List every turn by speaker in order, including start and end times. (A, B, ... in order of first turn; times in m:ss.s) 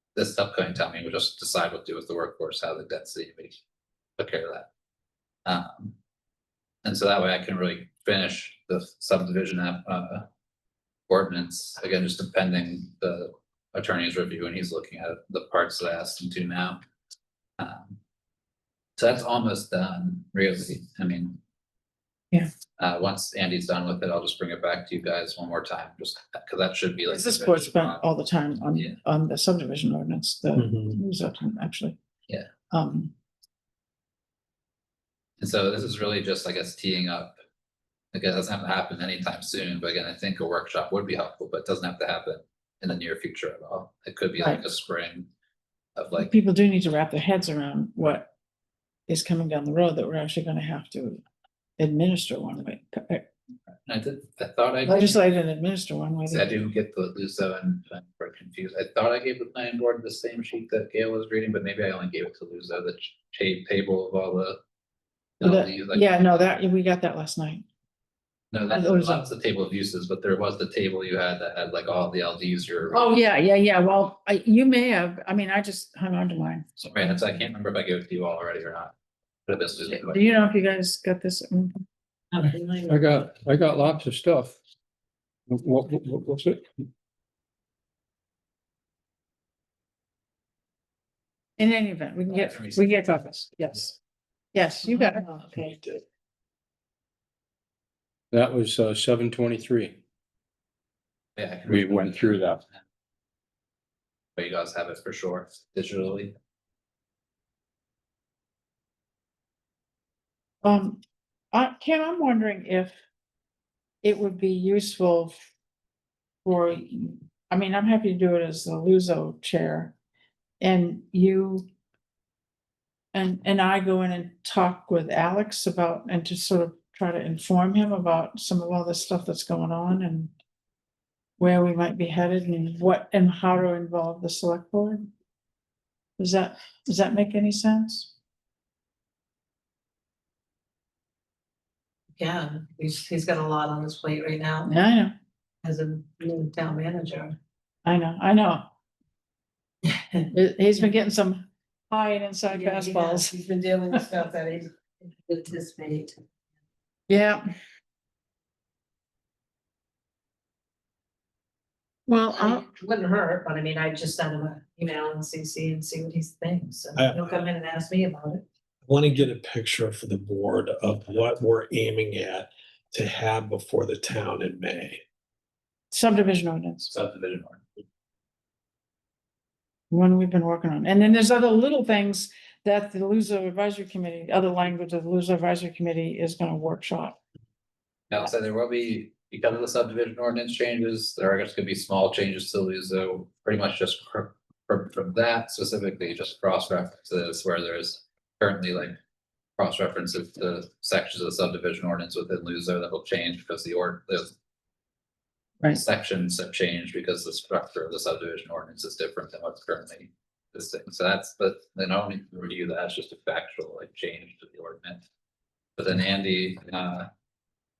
0:00.2-0:03.6 A
0:04.2-0:04.7 A
0:05.5-0:06.0 A
0:06.8-0:10.3 A
0:11.1-0:16.8 A
0:17.6-0:18.0 A
0:19.0-0:21.4 A
0:22.8-0:28.1 A
0:27.1-0:32.0 B
0:30.6-0:31.0 C
0:32.7-0:33.1 B
0:35.4-0:37.4 A
0:38.1-0:45.3 A
0:46.0-0:46.3 A
0:46.2-0:48.3 B
0:49.1-0:51.2 B
0:51.8-0:53.2 B
0:53.9-0:55.2 A
0:54.8-0:56.5 B
0:56.3-1:04.6 A
1:05.4-1:06.4 A
1:05.4-1:07.6 B
1:08.5-1:13.2 A
1:08.7-1:09.3 B
1:12.9-1:16.6 B
1:16.8-1:18.9 A
1:19.5-1:20.4 A
1:19.8-1:21.8 B
1:22.3-1:23.2 D
1:22.9-1:24.6 E
1:25.5-1:26.6 E
1:31.6-1:34.0 B
1:32.3-1:32.8 A
1:34.5-1:35.3 B
1:34.9-1:35.8 D
1:38.3-1:40.0 E
1:41.4-1:42.8 A
1:41.7-1:42.6 E
1:44.4-1:46.3 A
1:50.6-1:51.0 B
1:51.5-1:53.0 B
1:54.0-1:55.3 B
1:56.4-1:59.9 B
2:00.6-2:01.7 B
2:03.1-2:10.3 B
2:11.4-2:15.0 B
2:16.2-2:18.1 B
2:22.2-2:24.7 D
2:24.7-2:25.1 B
2:25.6-2:27.4 D
2:27.8-2:28.7 B
2:29.8-2:30.9 D
2:30.3-2:33.4 B
2:32.5-2:36.2 D
2:37.1-2:37.4 B
2:42.1-2:42.6 B
2:42.3-2:48.4 D
2:47.0-2:47.4 C
2:48.9-2:55.0 C
2:55.9-2:56.9 B
2:56.9-2:57.6 A
2:59.9-3:07.2 B
3:08.1-3:19.0 A
3:19.6-3:24.3 A
3:25.7-3:35.0 A
3:35.8-3:37.1 A